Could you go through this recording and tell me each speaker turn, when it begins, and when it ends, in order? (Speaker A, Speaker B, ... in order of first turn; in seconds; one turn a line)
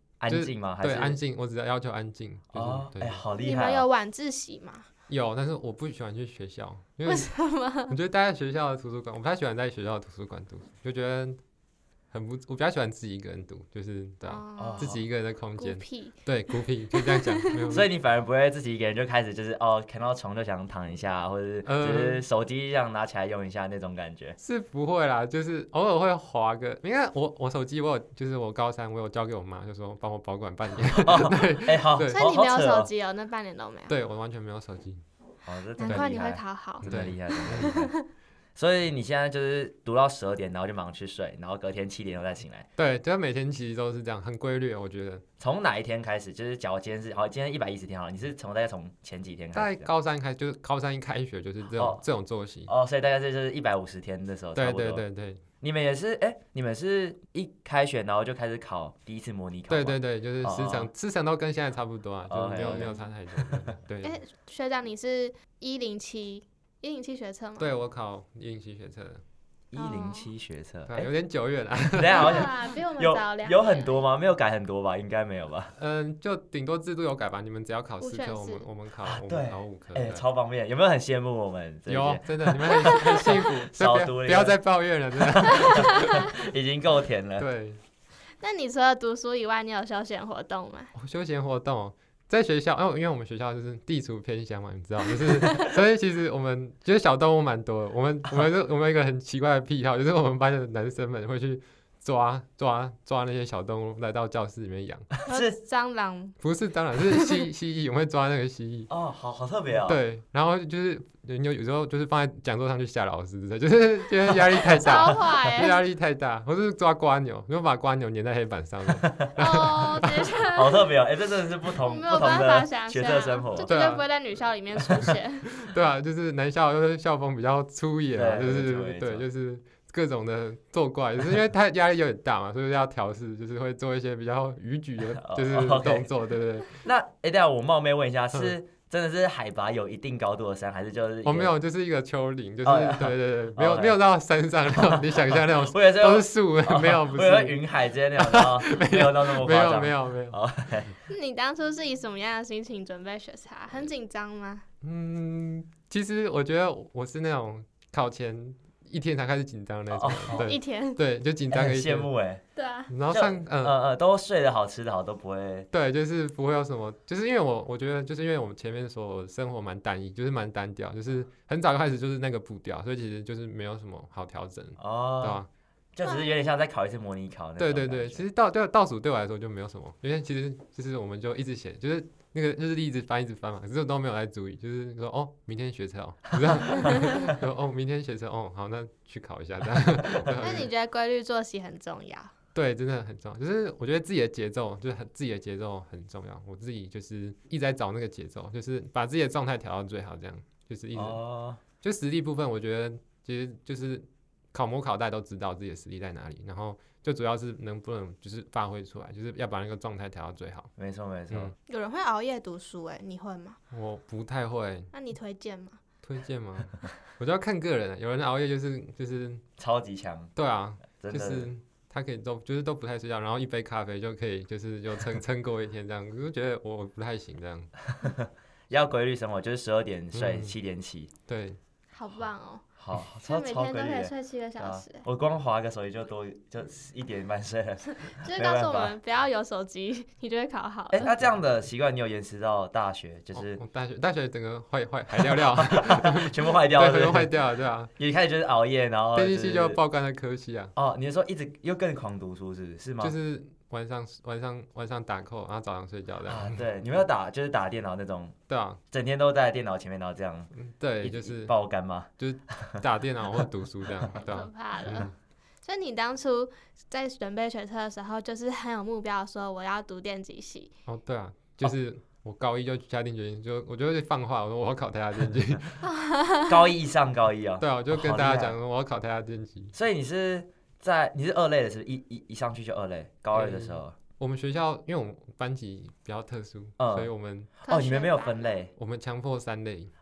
Speaker A: 0.2-1.2
Speaker B: 0.3-3.2
Speaker A: 2.5-3.9
Speaker C: 3.4-4.9
Speaker B: 5.1-7.3
Speaker C: 7.1-8.0
Speaker B: 7.9-11.4
Speaker B: 12.1-17.9
Speaker C: 14.2-15.0
Speaker A: 14.6-15.0
Speaker C: 15.6-17.7
Speaker A: 17.7-24.4
Speaker B: 21.6-22.2
Speaker B: 24.4-32.2
Speaker A: 30.8-32.9
Speaker C: 32.1-34.0
Speaker B: 33.9-35.0
Speaker A: 35.5-37.9
Speaker C: 35.8-38.1
Speaker B: 36.8-37.7
Speaker A: 38.6-42.7
Speaker B: 42.8-45.2
Speaker A: 45.4-49.9
Speaker B: 49.5-52.7
Speaker A: 51.7-52.0
Speaker A: 52.7-55.0
Speaker B: 54.6-55.4
Speaker A: 55.6-60.9
Speaker B: 59.7-64.2
Speaker A: 62.3-63.7
Speaker C: 62.6-63.0
Speaker C: 64.0-67.7
Speaker B: 67.6-69.2
Speaker A: 69.7-71.1
Speaker C: 69.8-70.3
Speaker B: 70.9-72.4
Speaker A: 71.9-75.7
Speaker C: 72.1-74.0
Speaker B: 75.8-80.2
Speaker C: 78.0-78.6
Speaker A: 79.0-84.6
Speaker B: 81.9-86.2
Speaker C: 82.9-83.3
Speaker A: 85.2-87.5
Speaker C: 85.7-86.2
Speaker B: 87.4-87.8
Speaker C: 88.4-90.9
Speaker B: 90.9-105.1
Speaker A: 105.2-105.5
Speaker C: 105.3-106.4
Speaker B: 106.4-108.9
Speaker C: 107.1-107.4
Speaker A: 108.9-110.0
Speaker B: 109.9-120.2
Speaker A: 114.3-115.6
Speaker C: 114.6-115.8
Speaker A: 119.0-119.6
Speaker C: 119.4-120.9
Speaker A: 120.5-123.7
Speaker C: 121.8-125.5
Speaker B: 123.6-124.1
Speaker B: 125.5-136.7
Speaker A: 128.1-129.3
Speaker A: 135.2-136.1
Speaker A: 136.7-141.5
Speaker B: 141.2-147.6
Speaker A: 142.7-144.0
Speaker A: 144.7-150.9
Speaker B: 148.2-150.4
Speaker C: 151.1-154.7
Speaker B: 154.8-162.1
Speaker A: 159.9-160.6
Speaker C: 160.3-161.0
Speaker A: 161.5-162.4
Speaker C: 162.6-162.9
Speaker B: 162.9-163.8
Speaker A: 163.1-165.7
Speaker B: 165.7-175.5
Speaker A: 174.8-175.4
Speaker A: 175.9-178.2
Speaker C: 176.0-176.4
Speaker B: 177.6-190.7
Speaker A: 186.7-187.1
Speaker C: 190.4-192.3
Speaker B: 192.6-201.2
Speaker A: 200.9-201.6
Speaker B: 201.8-210.7
Speaker A: 210.8-211.5
Speaker C: 211.7-213.6
Speaker B: 213.7-214.9
Speaker C: 214.9-215.8
Speaker B: 216.0-219.4
Speaker A: 219.6-220.3
Speaker B: 220.4-227.7
Speaker A: 221.0-221.5
Speaker A: 227.9-231.1
Speaker B: 230.1-230.6
Speaker B: 231.3-231.6
Speaker C: 231.9-232.7
Speaker A: 232.8-238.9
Speaker C: 233.2-235.0
Speaker C: 237.9-241.1
Speaker A: 240.9-243.6
Speaker B: 243.3-247.9
Speaker A: 245.1-247.4
Speaker A: 248.0-249.8
Speaker B: 249.2-250.7
Speaker A: 250.8-253.2
Speaker B: 253.0-256.7
Speaker A: 256.3-258.4
Speaker B: 258.5-258.8
Speaker A: 258.9-262.8
Speaker B: 260.6-261.5
Speaker B: 262.2-265.1
Speaker C: 264.2-265.1
Speaker C: 265.6-270.7
Speaker B: 270.9-275.8
Speaker C: 275.8-276.7
Speaker A: 276.5-278.6
Speaker B: 277.6-279.7
Speaker A: 279.7-283.9
Speaker B: 283.3-287.5
Speaker A: 286.8-288.7
Speaker C: 287.6-288.5
Speaker B: 288.8-289.9